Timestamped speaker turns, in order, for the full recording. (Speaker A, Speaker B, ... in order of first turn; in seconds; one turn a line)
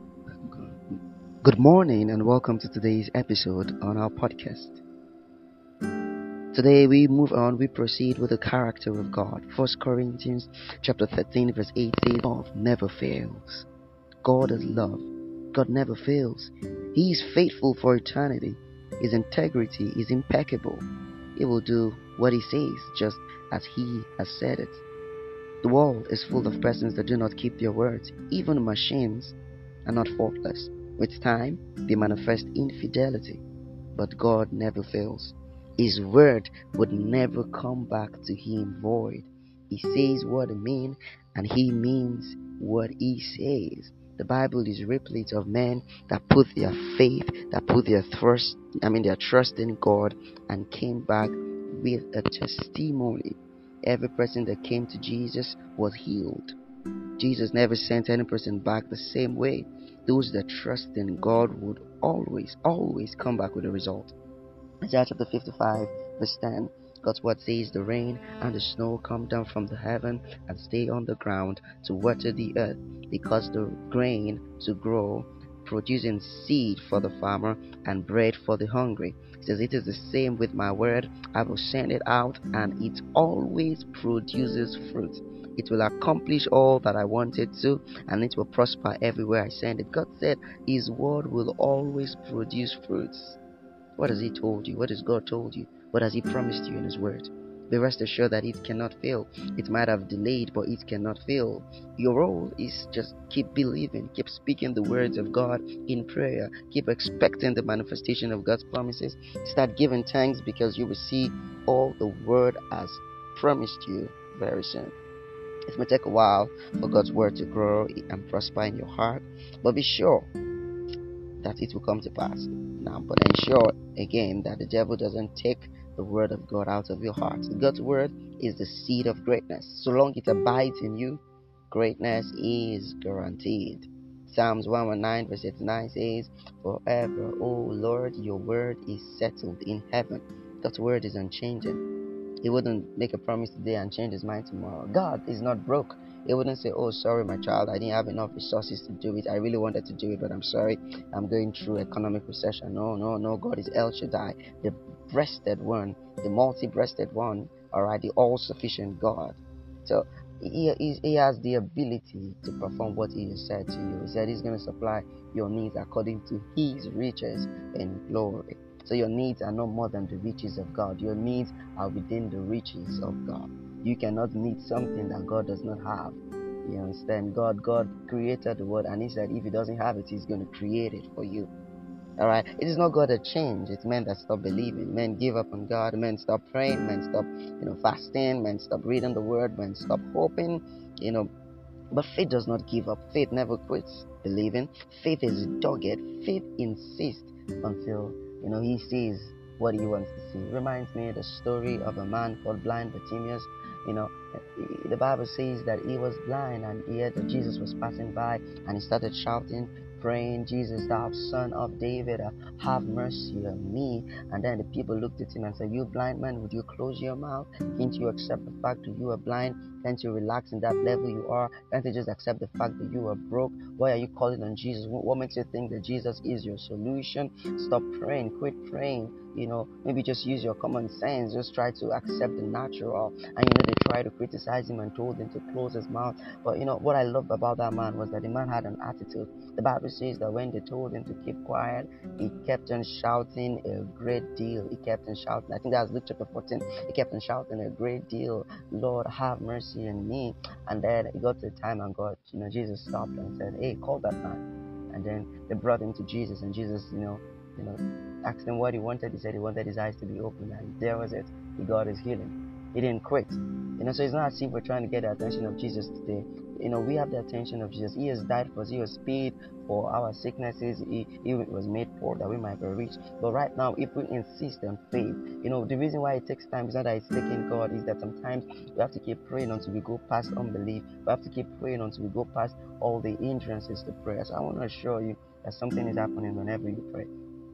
Speaker A: 0.4-4.8
Speaker A: 6.5-13.7
Speaker A: 14.2-20.8
Speaker A: 21.4-24.8
Speaker A: 25.6-33.4
Speaker A: 33.9-56.5
Speaker A: 57.2-64.1
Speaker A: 64.8-93.4
Speaker A: 94.0-114.9
Speaker A: 115.7-120.3
Speaker A: 121.4-141.8
Speaker A: 142.4-181.5
Speaker A: 182.2-191.3
Speaker A: 191.9-287.1